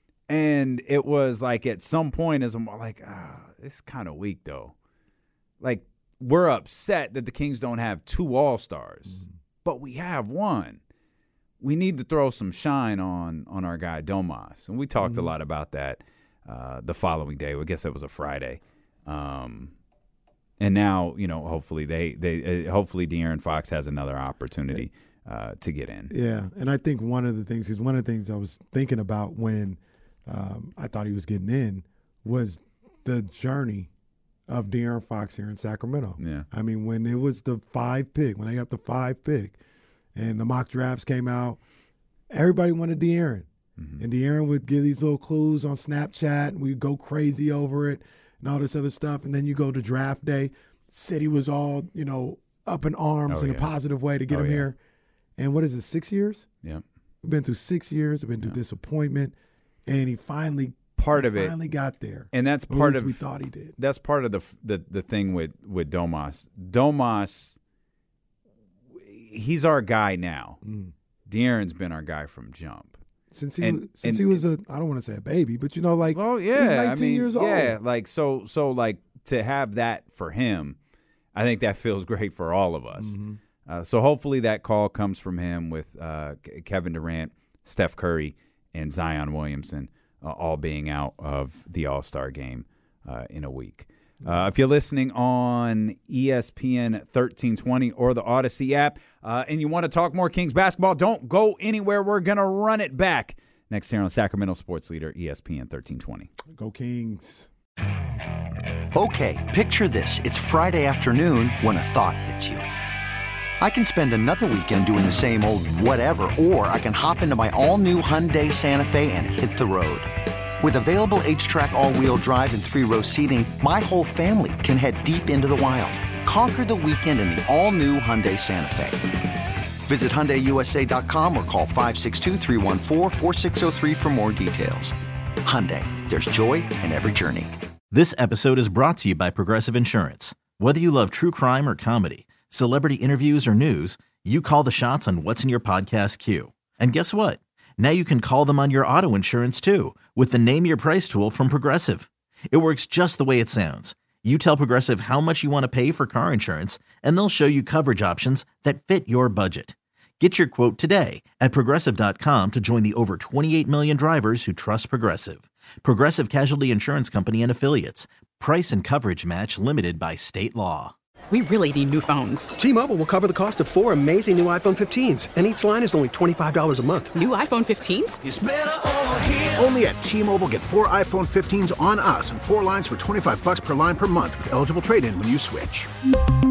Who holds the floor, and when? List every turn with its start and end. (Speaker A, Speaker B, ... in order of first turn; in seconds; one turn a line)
Speaker A: 0.3-4.7
Speaker A: 5.6-10.8
Speaker B: 9.1-9.3
Speaker A: 11.6-19.7
Speaker B: 15.0-15.3
Speaker A: 20.6-26.1
Speaker B: 26.1-33.9
Speaker B: 34.5-39.6
Speaker A: 36.2-36.5
Speaker B: 40.1-41.6
Speaker B: 42.3-54.8
Speaker A: 43.8-44.0
Speaker A: 53.3-53.7
Speaker A: 54.3-54.7
Speaker B: 55.4-56.5
Speaker B: 57.2-63.8
Speaker A: 61.0-61.5
Speaker A: 62.3-63.2
Speaker A: 63.8-67.6
Speaker A: 69.0-70.6
Speaker B: 70.6-70.9
Speaker A: 71.3-73.0
Speaker B: 73.3-77.8
Speaker A: 73.6-74.4
Speaker A: 76.1-80.8
Speaker A: 81.3-106.3
Speaker B: 83.0-83.4
Speaker B: 106.5-107.5
Speaker C: 108.9-112.6
Speaker C: 113.6-120.1
Speaker C: 120.6-129.0
Speaker C: 129.9-137.5
Speaker D: 137.9-170.9
Speaker E: 171.3-172.5
Speaker F: 172.6-177.1
Speaker E: 177.1-178.2
Speaker G: 178.3-185.9